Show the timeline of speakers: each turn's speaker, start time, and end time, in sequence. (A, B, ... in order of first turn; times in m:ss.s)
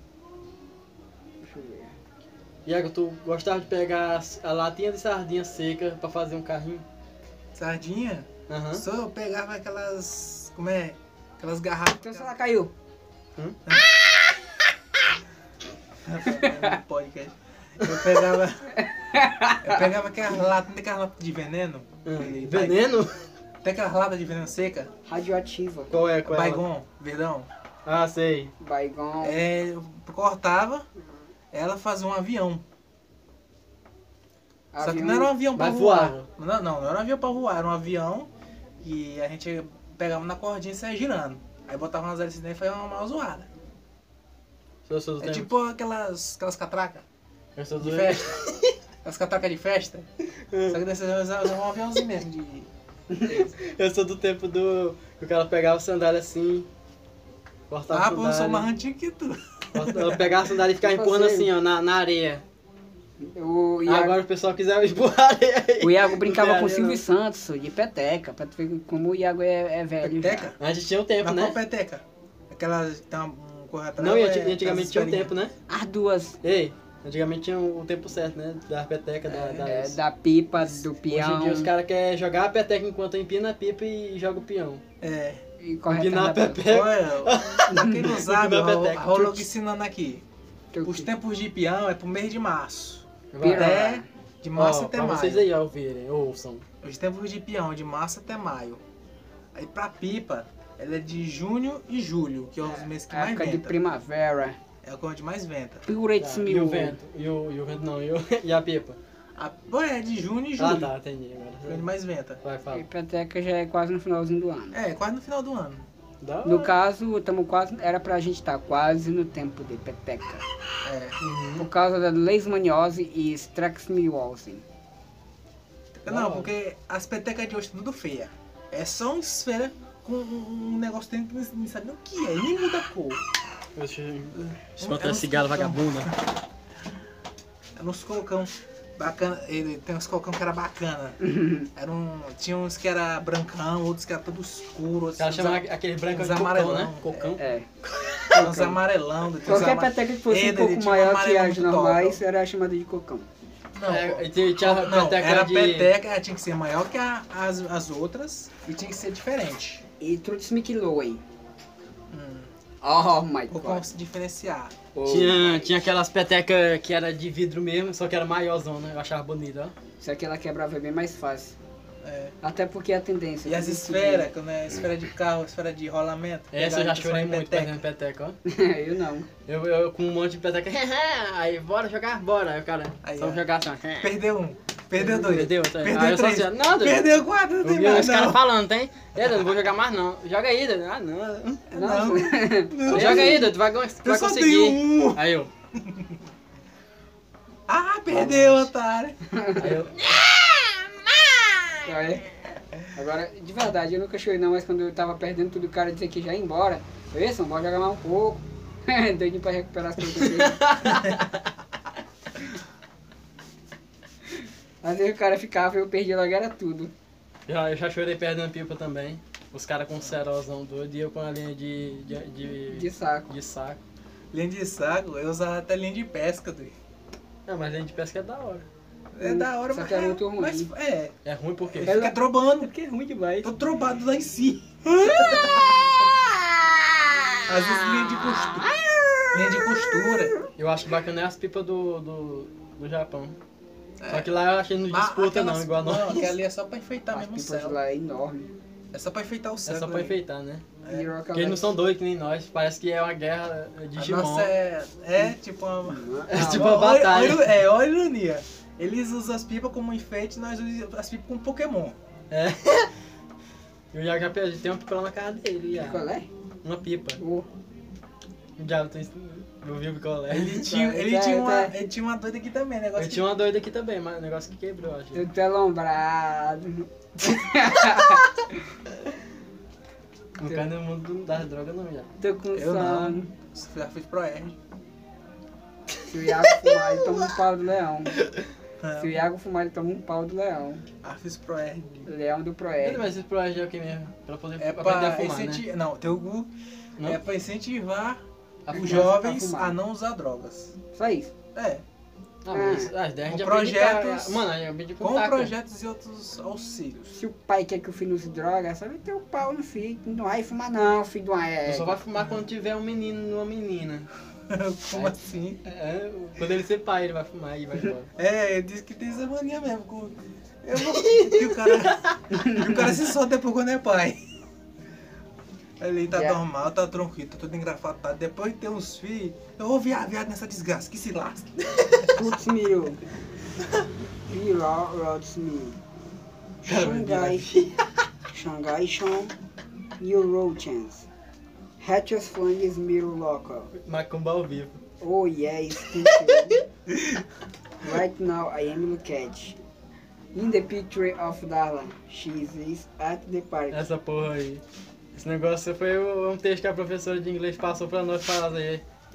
0:01.4-0:02.0 A
0:02.6-0:06.8 B
0:07.5-0:12.3 C
0:08.5-0:08.8 B
0:11.9-0:12.7 A
0:13.6-0:14.0 C
0:16.0-0:18.7 C
0:16.3-0:16.8 A
0:18.7-0:19.9 A
0:19.6-0:22.9 C
0:22.0-0:23.3 B
0:23.6-0:24.9 C
0:25.0-0:25.9 A
0:25.9-0:26.6 B
0:26.2-0:27.5 C
0:27.8-0:28.5 B
0:28.6-0:29.4 A
0:29.2-0:30.9 C
0:31.5-0:32.6 C
0:34.7-0:35.3 A
0:34.8-0:43.5 C
0:35.5-0:36.3 B
0:44.8-0:45.5 B
0:45.2-0:47.0 C
0:47.6-0:48.8 B
0:47.8-0:48.4 C
0:49.0-0:50.1 C
0:50.4-0:50.8 B
0:50.7-0:52.7 C
0:53.1-0:53.5 A
0:53.3-0:56.7 B
0:57.7-0:58.7 B
0:57.9-1:00.4 C
0:59.7-1:02.4 B
1:00.8-1:01.5 A
1:03.2-1:04.2 A
1:03.8-1:07.0 B
1:05.8-1:10.5 A
1:10.0-1:10.6 C
1:10.6-1:11.6 B
1:11.2-1:15.3 C
1:14.0-1:15.5 B
1:15.7-1:16.4 A
1:16.4-1:20.0 B
1:19.3-1:19.7 C
1:19.6-1:21.7 A
1:21.1-1:24.8 B
1:25.0-1:25.4 C
1:25.6-1:26.7 A
1:25.9-1:29.4 B
1:26.6-1:30.2 C
1:27.7-1:28.2 A
1:30.7-1:31.1 A
1:30.8-1:35.5 C
1:33.3-1:33.8 B
1:33.4-1:34.1 A
1:34.6-1:36.6 B
1:36.8-1:38.8 C
1:39.5-1:43.8 C
1:42.6-1:44.6 A
1:44.8-1:45.8 C
1:45.9-1:47.0 A
1:46.2-1:49.0 B
1:49.4-1:50.9 C
1:50.6-1:51.9 B
1:51.7-1:52.4 C
1:52.4-1:52.8 B
1:52.7-1:54.8 A
1:54.7-1:55.8 C
1:56.2-1:56.7 B
1:56.4-2:00.4 A
2:00.8-2:01.2 C
2:01.2-2:01.7 B
2:01.6-2:04.6 A
2:06.0-2:13.2 C
2:06.0-2:06.5 B
2:13.8-2:16.1 B
2:14.4-2:16.1 C
2:17.8-2:21.2 C
2:21.2-2:21.7 A
2:21.7-2:27.4 C
2:25.2-2:28.4 B
2:27.4-2:27.7 A
2:28.3-2:28.8 A
2:28.3-2:32.2 C
2:29.4-2:33.3 A
2:33.7-2:39.8 C
2:33.9-2:35.9 B
2:40.0-2:41.2 A
2:42.1-2:42.5 C
2:42.8-2:43.9 A
2:43.5-2:44.7 C
2:44.9-2:45.7 A
2:45.0-2:49.7 B
2:50.0-2:51.6 A
2:52.0-2:52.3 C
2:52.4-2:54.3 A
2:53.4-2:57.8 C
2:56.5-2:58.4 B
2:58.4-2:59.3 A
2:59.4-3:04.1 B
3:03.0-3:03.4 C
3:04.0-3:08.4 C
3:05.0-3:07.1 B
3:07.6-3:11.7 B
3:11.7-3:15.2 C
3:11.7-3:13.5 A
3:12.9-3:15.5 B
3:15.8-3:16.1 C
3:17.7-3:19.2 C
3:18.1-3:18.7 B
3:19.3-3:19.8 A
3:19.6-3:20.1 B
3:20.1-3:20.8 C
3:21.8-3:22.3 A
3:22.9-3:31.1 A
3:30.0-3:31.4 B
3:34.8-3:36.9 A
3:37.5-3:43.8 B
3:42.7-3:43.3 A
3:44.3-3:46.8 C
3:47.5-3:48.7 B
3:49.1-3:51.1 C
3:49.2-3:50.7 A
3:51.2-3:52.0 B
3:51.7-3:52.7 C
3:51.8-3:53.5 A
3:53.4-3:55.9 C
3:57.5-3:58.7 C
3:58.4-3:59.2 A
3:59.3-4:00.3 C
4:00.6-4:03.4 B
4:04.0-4:04.3 C
4:04.1-4:06.3 B
4:04.9-4:07.8 C
4:07.1-4:08.5 A
4:08.9-4:10.2 C
4:09.6-4:10.6 B
4:10.9-4:11.7 A
4:11.3-4:14.5 B
4:14.0-4:22.0 C
4:15.8-4:16.7 A
4:16.3-4:17.6 B
4:22.3-4:22.9 B
4:23.9-4:26.0 B
4:25.7-4:26.3 A
4:26.6-4:27.2 B
4:27.2-4:27.5 A
4:28.6-4:30.6 B
4:30.3-4:33.2 C
4:30.6-4:31.8 A
4:33.0-4:35.2 B
4:35.1-4:38.6 A
4:40.4-4:42.1 B
4:42.2-4:43.3 A
4:42.5-4:44.6 C
4:46.0-4:47.3 B
4:46.1-4:48.2 A
4:48.1-4:48.5 B
4:48.8-4:49.1 C
4:49.0-4:50.8 A
4:51.0-4:52.0 C
4:52.0-4:53.0 A
4:52.8-4:55.6 B
4:54.6-4:56.5 C
4:57.0-5:00.7 C
4:58.6-4:59.1 B
4:58.7-4:59.8 A
5:00.9-5:01.3 A
5:01.5-5:01.8 C
5:02.4-5:05.5 B
5:02.5-5:02.9 A
5:03.3-5:04.4 C
5:05.0-5:07.0 C
5:07.0-5:12.0 A
5:11.6-5:14.1 B
5:14.5-5:15.6 C
5:14.9-5:18.1 B
5:18.2-5:24.2 C
5:20.8-5:22.2 B
5:22.3-5:22.9 A
5:25.8-5:32.1 C
5:26.1-5:26.4 A
5:32.1-5:33.0 A
5:34.3-5:35.8 A
5:36.6-5:37.5 A
5:36.6-5:37.8 B
5:38.3-5:39.3 A
5:40.0-5:41.1 A
5:41.8-5:43.7 A
5:43.7-5:44.8 B
5:45.0-5:46.6 A
5:46.0-5:46.6 B
5:47.8-5:49.6 A
5:50.3-5:53.8 A
5:53.7-5:54.6 B
5:55.1-5:58.8 B